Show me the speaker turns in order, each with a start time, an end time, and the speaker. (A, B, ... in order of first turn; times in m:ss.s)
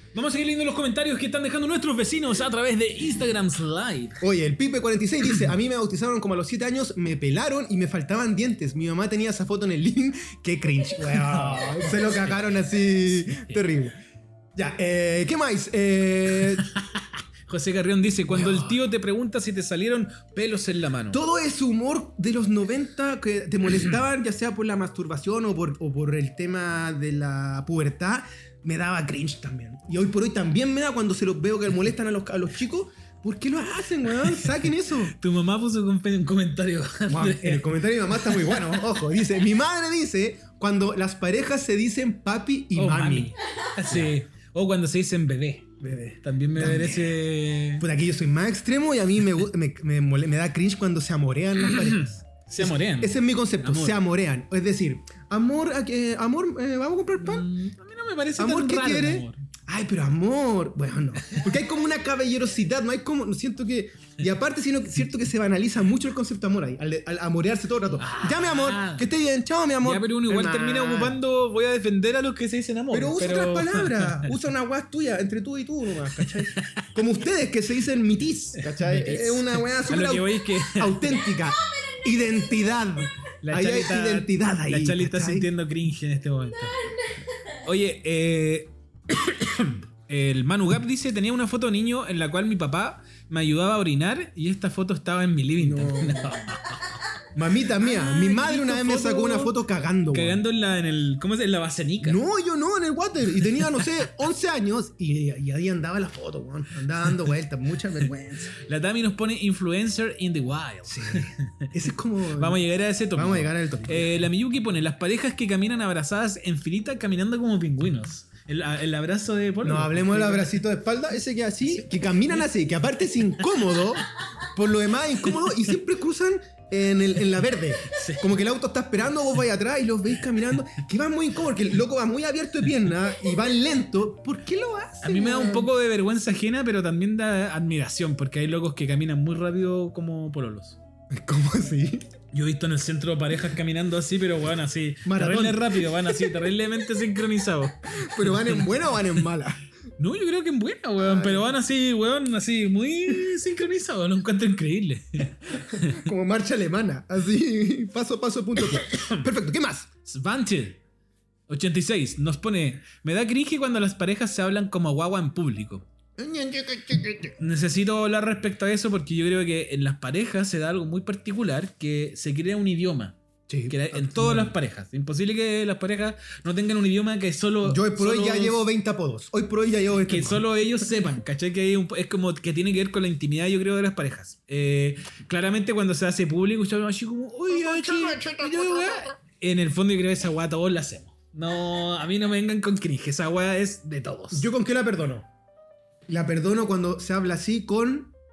0:00.1-0:04.2 A
0:04.2-0:14.0 B
0:11.0-0:12.4 A
0:13.2-0:13.6 A
0:14.6-0:16.7 B
0:16.6-0:21.2 A
0:18.3-0:18.8 B
0:21.1-0:35.1 B
0:35.0-0:38.8 A
0:37.1-0:43.3 B
0:42.8-0:45.7 A
0:43.9-0:44.2 B
0:45.8-0:47.2 B
0:46.2-0:47.8 A
0:47.8-0:57.5 B
0:51.6-0:54.0 A
0:57.2-0:59.4 A
0:58.4-1:11.2 B
1:08.0-1:09.1 A
1:09.8-1:14.3 A
1:12.9-1:25.5 B
1:16.2-1:16.9 A
1:18.7-1:21.2 A
1:23.4-1:26.8 A
1:27.6-1:37.0 A
1:35.6-1:36.5 B
1:37.3-1:40.4 B
1:37.8-1:39.6 A
1:40.1-1:42.2 A
1:42.0-1:48.6 B
1:48.5-1:51.7 A
1:50.9-1:52.6 B
1:52.3-2:00.6 A
1:53.1-1:54.2 B
1:59.6-2:15.7 B
2:07.8-2:08.3 A
2:15.0-2:20.8 A
2:21.1-2:22.0 B
2:22.3-2:28.7 A
2:25.0-2:26.4 B
2:27.9-2:29.6 B
2:30.0-2:36.0 A
2:31.0-2:31.5 B
2:35.7-2:39.9 B
2:38.7-2:39.2 A
2:40.0-2:40.8 A
2:41.5-2:45.9 A
2:46.2-2:47.4 B
2:47.4-2:58.6 A
2:53.5-2:54.6 B
2:57.6-3:00.9 B
3:00.0-3:14.5 A
3:07.5-3:09.1 B
3:14.3-3:15.3 B
3:16.1-3:18.1 B